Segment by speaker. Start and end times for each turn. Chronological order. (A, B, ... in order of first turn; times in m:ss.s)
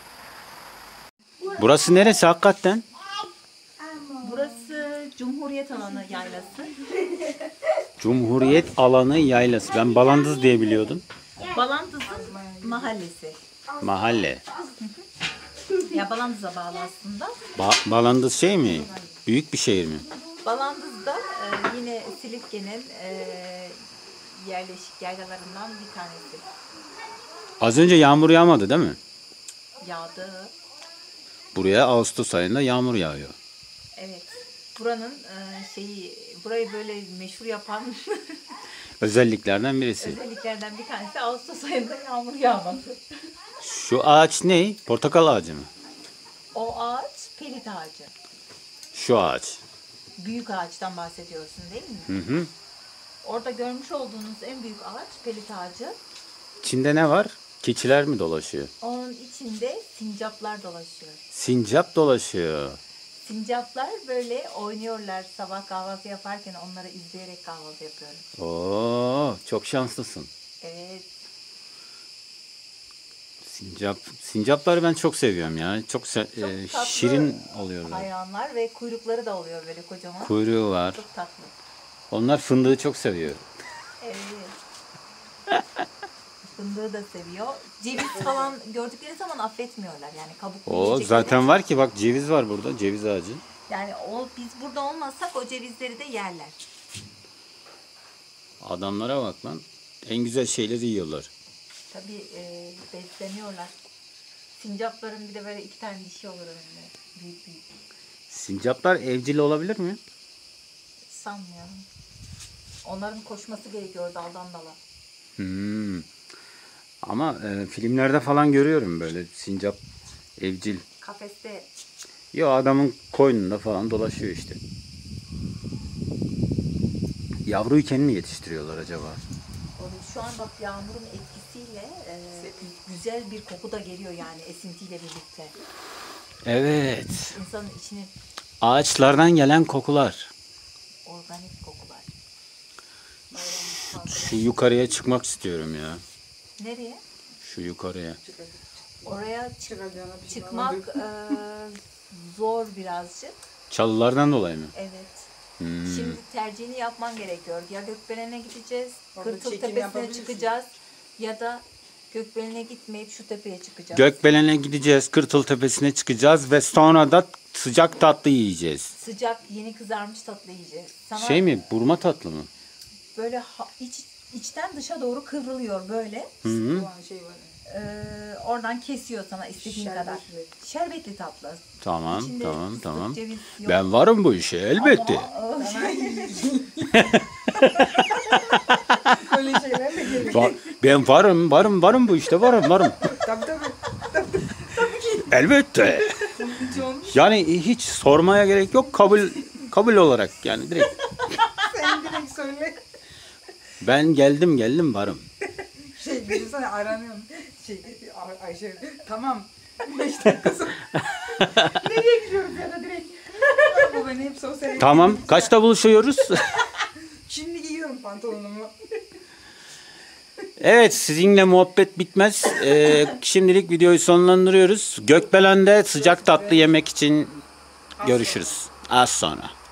0:01.5-0:02.8 A
0:03.8-0:04.7 B
0:04.2-0:06.8 C
0:08.0-0:11.0 A
0:11.4-0:13.4 C
0:12.0-0:12.9 B
0:13.8-0:14.4 A
0:15.8-0:17.4 C
0:17.6-0:20.1 A
0:20.4-0:26.5 C
0:27.6-0:29.0 A
0:29.8-0:30.5 C
0:31.5-0:33.4 A
0:33.9-0:38.5 C
0:39.0-0:40.2 A
0:40.0-0:42.9 C
0:43.6-0:45.7 A
0:46.5-0:48.1 C
0:48.9-0:49.6 A
0:50.2-0:52.2 C
0:52.1-0:52.5 A
0:53.2-0:56.0 C
0:56.6-0:58.7 A
0:58.8-1:01.2 C
1:01.3-1:02.8 A
1:03.2-1:08.2 C
1:08.4-1:10.3 A
1:10.6-1:11.0 C
1:13.4-1:18.1 A
1:16.4-1:20.4 C
1:20.2-1:21.0 A
1:20.9-1:21.5 C
1:22.1-1:23.4 A
1:24.0-1:24.5 C
1:26.4-1:31.5 C
1:30.6-1:33.4 A
1:33.7-1:36.6 C
1:38.6-1:41.3 A
1:41.9-1:43.7 C
1:44.5-1:47.6 C
1:48.3-1:50.0 A
1:51.1-1:51.8 C
1:52.8-1:54.8 C
1:55.4-1:56.1 A
1:57.0-1:59.8 A
2:00.4-2:00.8 A
2:01.0-2:01.7 C
2:02.3-2:04.6 A
2:07.4-2:09.2 A
2:09.8-2:15.5 C
2:12.4-2:12.7 B
2:16.4-2:17.3 A
2:17.2-2:18.1 C
2:18.6-2:20.3 A
2:21.0-2:22.1 C
2:23.3-2:24.6 B
2:24.0-2:26.0 A
2:26.6-2:27.0 C
2:27.4-2:28.2 A
2:28.2-2:31.0 B
2:29.0-2:29.7 C
2:30.3-2:33.4 C
2:33.7-2:34.7 A
2:34.7-2:35.3 C
2:35.6-2:36.2 A
2:35.8-2:44.3 C
2:39.1-2:40.5 B
2:43.9-2:48.9 A
2:48.9-2:51.5 C
2:51.1-2:52.5 A
2:53.1-2:56.4 C
2:56.4-2:56.9 A
2:56.4-2:57.5 B
2:57.6-3:03.9 C
2:59.6-3:00.5 B
3:01.8-3:05.3 A
3:04.8-3:06.5 C
3:05.6-3:06.9 B
3:06.9-3:09.3 A
3:09.1-3:10.7 B
3:10.3-3:13.0 A
3:13.0-3:15.2 B
3:15.2-3:16.3 A
3:16.2-3:17.2 B
3:17.1-3:21.0 A
3:21.5-3:22.8 B
3:23.8-3:25.3 A
3:25.8-3:35.5 B
3:31.4-3:31.7 A
3:34.8-3:36.6 A
3:36.8-3:38.7 B
3:40.6-3:47.4 A
3:45.9-3:46.7 B
3:48.0-3:48.6 B
3:48.0-3:49.5 A